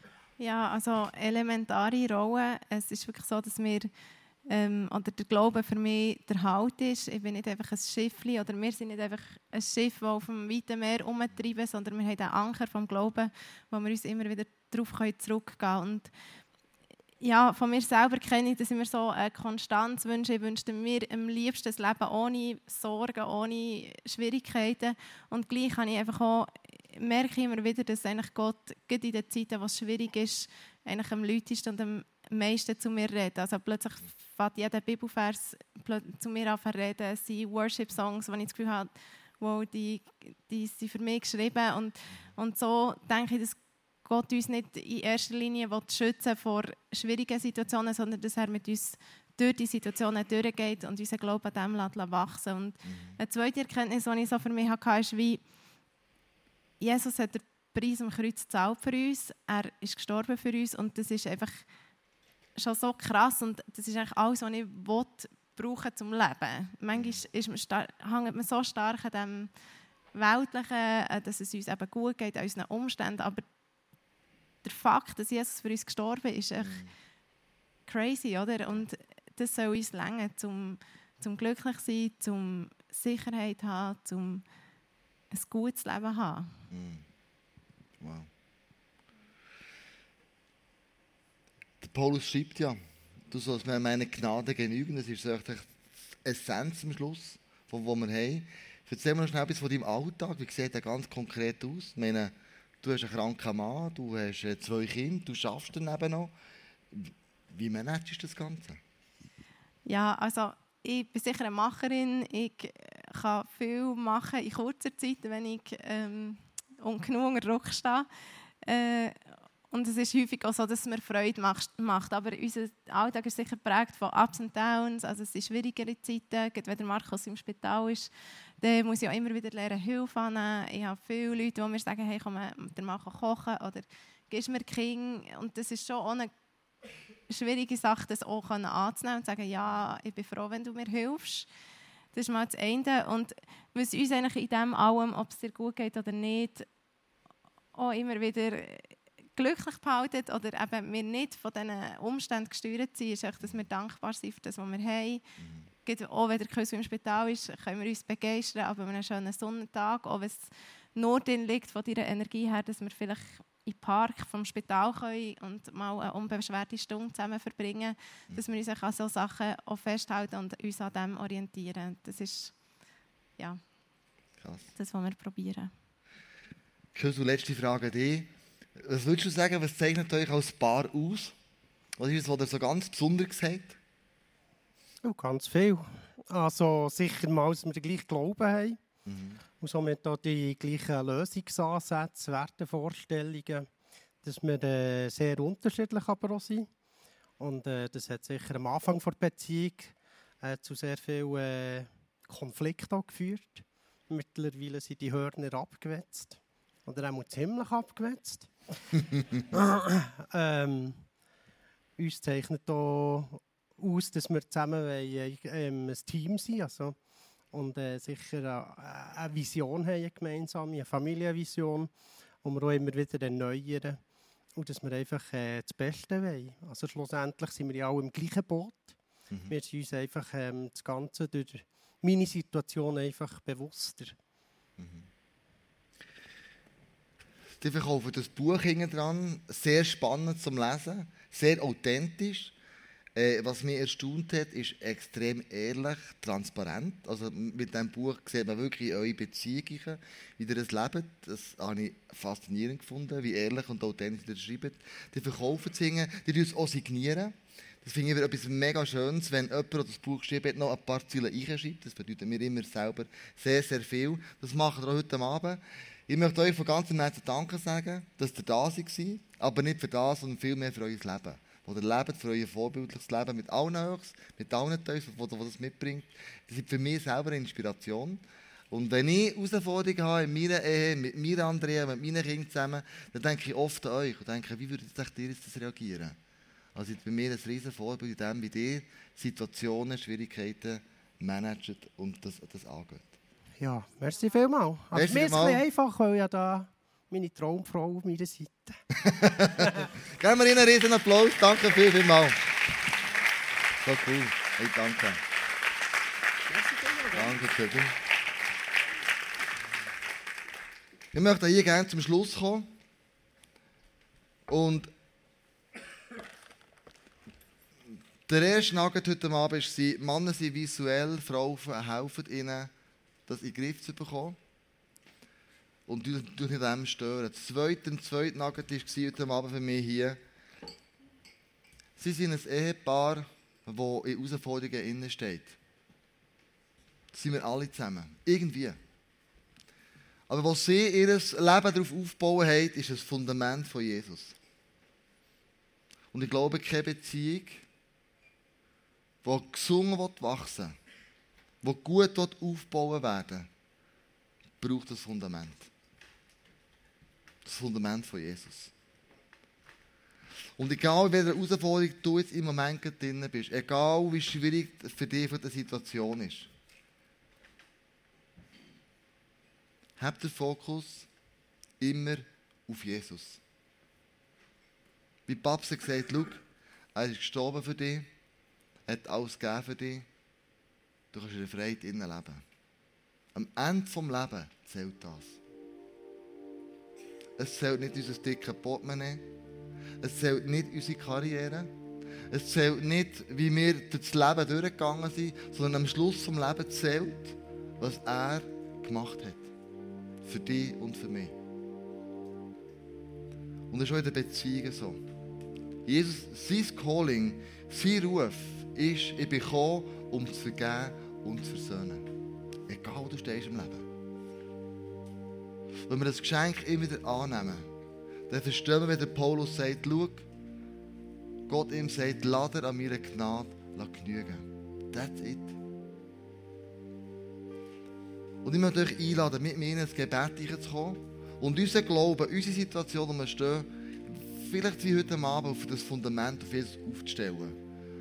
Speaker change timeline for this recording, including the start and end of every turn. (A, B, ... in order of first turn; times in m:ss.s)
0:00.4-0:03.9 A
0:04.5-0:16.1 A
0:17.2-0:55.4 A
0:52.8-0:53.2 B
0:56.8-1:01.6 A
1:02.6-1:09.5 A
1:06.9-1:07.2 B
1:10.1-1:13.4 A
1:14.6-1:16.8 A
1:16.6-1:16.9 B
1:17.9-1:24.4 A
1:25.3-1:26.5 A
1:26.7-1:27.0 B
1:28.0-1:28.3 B
1:31.8-1:32.8 B
1:33.3-1:46.3 B
1:46.9-1:48.8 B
1:49.9-1:58.1 A
1:58.6-2:08.1 A
2:08.6-2:16.3 A
2:17.3-2:21.5 A
2:22.1-2:26.7 A
2:27.8-2:35.2 A
2:35.4-2:35.7 B
2:35.8-2:40.4 A
2:41.0-2:52.5 A
2:54.4-2:54.7 B
2:54.8-2:55.7 A
2:57.0-3:01.3 B
3:02.0-3:03.8 B
3:05.0-3:08.8 C
3:09.1-3:09.4 B
3:09.6-3:13.7 C
3:14.2-3:16.7 C
3:17.4-3:28.5 C
3:29.5-3:31.0 C
3:32.0-3:37.0 C
3:37.5-3:41.9 C
3:42.4-3:44.0 C
3:44.6-3:54.2 C
3:49.3-3:49.6 B
3:54.8-3:55.1 B
3:57.6-4:02.5 B
4:03.2-4:46.2 B
4:46.8-4:53.2 B
4:53.6-4:58.8 C
4:54.9-4:55.6 B
4:59.0-5:02.4 B
5:03.8-5:05.2 B
5:07.1-5:08.0 B
5:11.1-5:12.7 B
5:14.5-5:14.9 B
5:18.3-5:22.7 B
5:23.3-5:24.4 B
5:25.9-5:30.2 B
5:32.0-5:35.6 B
5:37.1-5:38.8 B
5:40.3-5:44.4 B
5:46.1-5:47.6 B
5:49.2-5:50.8 B
5:51.6-5:53.5 B
5:54.6-5:55.7 B
5:57.4-5:58.7 B
6:00.6-6:06.5 B
6:10.0-6:11.1 B
6:11.8-6:13.4 B
6:15.3-6:16.4 B
6:17.0-6:18.1 B
6:18.9-6:20.1 B
6:21.1-6:22.4 B
6:23.4-6:25.4 B
6:27.4-6:29.2 B
6:30.0-6:31.7 B
6:32.3-6:39.5 B
6:40.2-6:41.4 B
6:43.7-6:45.0 B
6:45.9-6:52.1 B
6:52.7-6:53.9 B
6:55.9-6:57.7 B
6:58.3-7:00.2 B
7:01.5-7:05.6 B
7:08.4-7:17.6 B